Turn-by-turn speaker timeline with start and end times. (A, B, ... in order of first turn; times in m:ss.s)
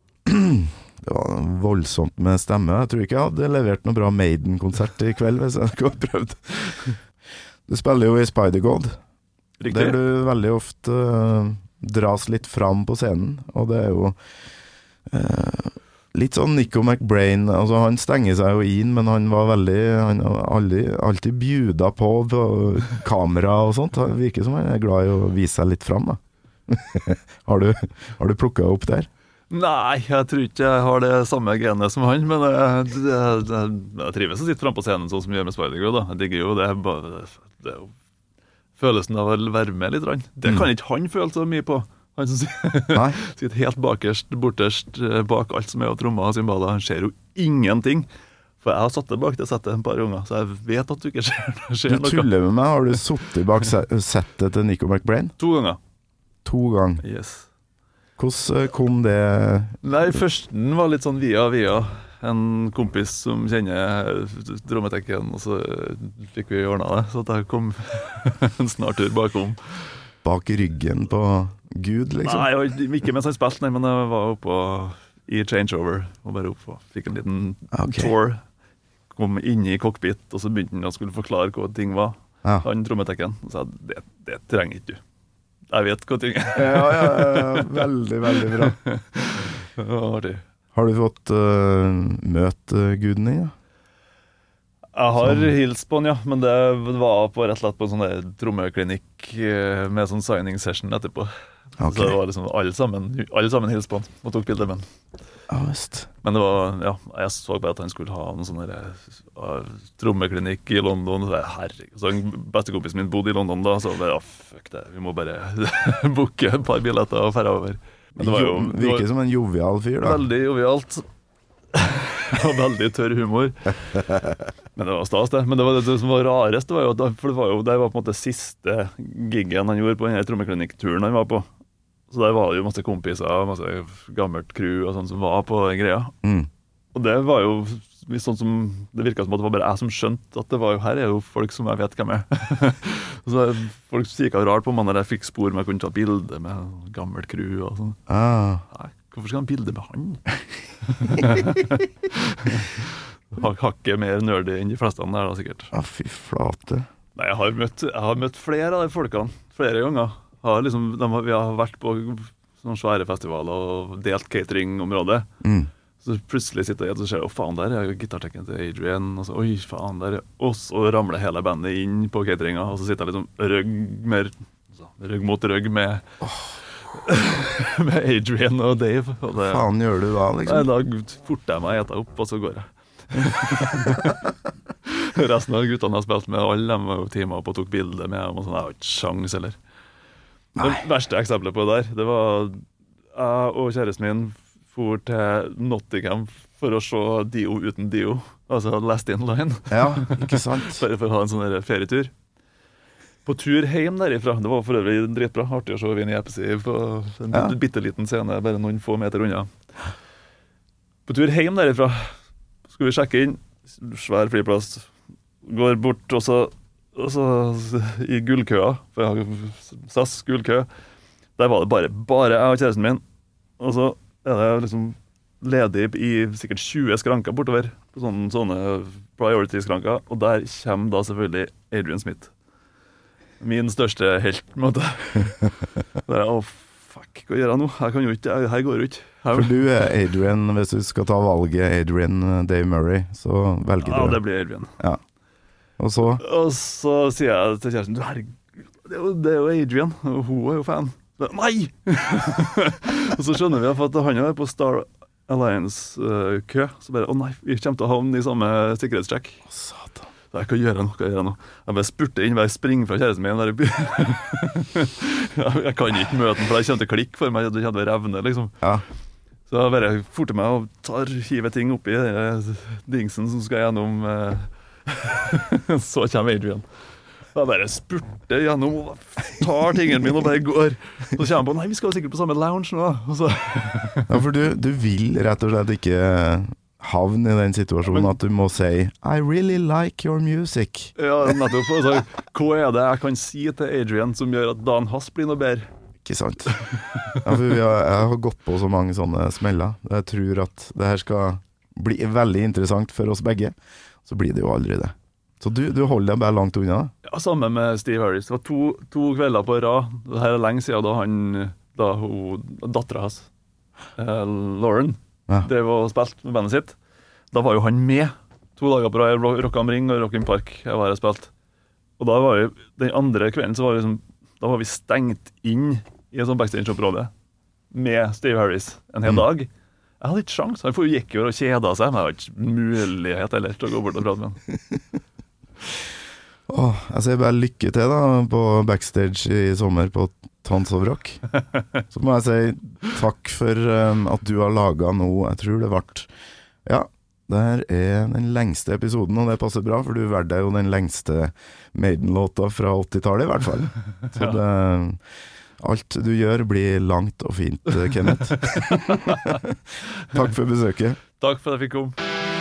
0:00.2-0:07.0 A
0:07.7-0:09.0 A
0:09.6-0:10.0 B
0:09.7-0:14.2 A
0:15.1-0:29.1 A
0:29.5-0:37.9 B
0:38.8-0:48.1 B
0:42.9-0:43.2 A
0:48.6-0:52.3 B
0:51.9-0:55.3 A
0:55.4-0:55.8 B
0:56.4-0:57.0 A
0:57.0-0:57.5 B
0:58.2-0:59.8 A
0:59.8-1:09.9 B
1:10.2-1:12.5 A
1:12.2-1:18.4 B
1:17.7-1:18.1 A
1:19.1-1:25.0 B
1:25.7-1:30.4 B
1:26.5-1:28.8 A
1:30.7-1:33.5 A
1:35.0-1:44.8 B
1:35.2-1:35.5 A
1:41.8-1:42.2 A
1:45.5-1:46.1 A
1:46.2-1:59.1 B
1:58.2-2:00.3 A
2:00.0-2:01.0 B
2:01.7-2:03.8 B
2:04.8-2:11.5 B
2:12.1-2:16.2 B
2:16.2-2:16.5 A
2:16.9-2:28.0 B
2:28.1-2:28.6 A
2:28.7-2:30.3 B
2:30.8-2:35.7 B
2:35.7-2:36.9 A
2:37.2-2:45.3 B
2:45.4-2:45.7 A
2:46.0-2:56.1 B
2:56.2-2:56.5 A
2:56.8-2:59.7 B
2:59.4-3:00.7 A
3:00.4-3:04.2 B
3:04.8-3:09.6 B
3:10.6-3:22.1 B
3:19.7-3:20.8 A
3:23.2-3:29.5 B
3:31.1-3:32.2 B
3:32.7-3:34.9 B
3:35.4-3:40.7 B
3:41.4-3:43.0 B
3:43.6-3:52.3 B
3:53.4-3:59.6 B
3:59.3-4:04.2 A
4:03.8-4:04.8 B
4:05.8-4:06.2 A
4:06.2-4:19.4 B
4:19.5-4:20.1 A
4:20.3-4:28.6 B
4:29.5-4:36.6 B
4:37.3-4:44.2 B
4:44.1-4:50.9 A
4:47.9-4:48.1 B
4:51.0-4:55.7 B
4:56.0-4:56.6 A
4:57.1-5:06.9 A
5:07.0-5:13.3 B
5:14.0-5:16.8 B
5:17.3-5:21.3 B
5:22.0-5:27.1 B
5:27.7-5:34.4 B
5:36.5-5:41.2 A
5:41.9-5:46.1 A
5:46.6-5:55.0 A
5:54.1-5:54.4 B
5:55.6-6:01.0 A
5:58.5-5:59.3 B
6:01.2-6:02.0 B